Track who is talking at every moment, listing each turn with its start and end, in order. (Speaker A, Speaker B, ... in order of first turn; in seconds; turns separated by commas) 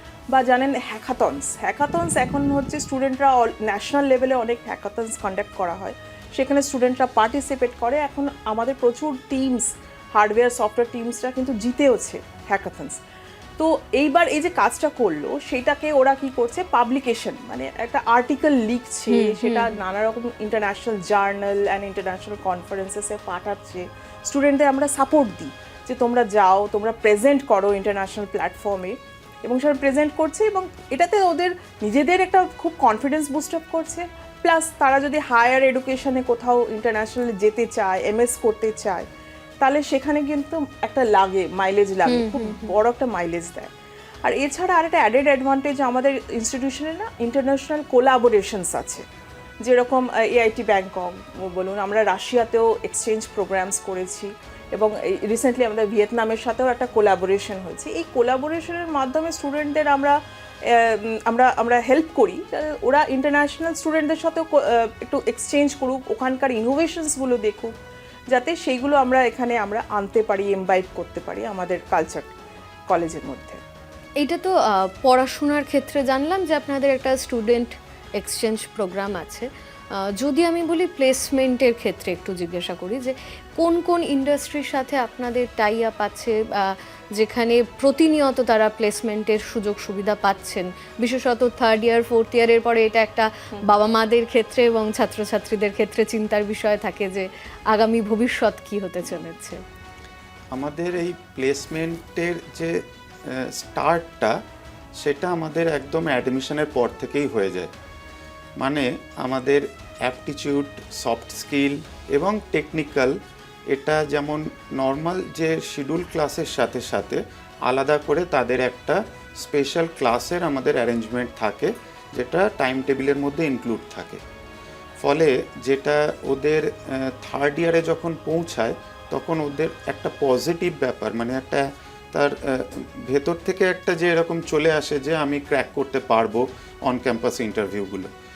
Speaker A: 0.3-13.0, Speaker A: 13.6-39.1, Speaker B: 19.1-19.7, Speaker A: 39.6-43.7, Speaker B: 42.1-42.8, Speaker A: 44.2-49.0, Speaker A: 49.6-67.7, Speaker A: 68.3-72.3, Speaker A: 72.9-73.6, Speaker B: 74.2-99.6, Speaker C: 100.5-104.4, Speaker C: 105.0-107.7, Speaker C: 108.6-113.2, Speaker C: 113.7-124.2, Speaker C: 125.0-138.1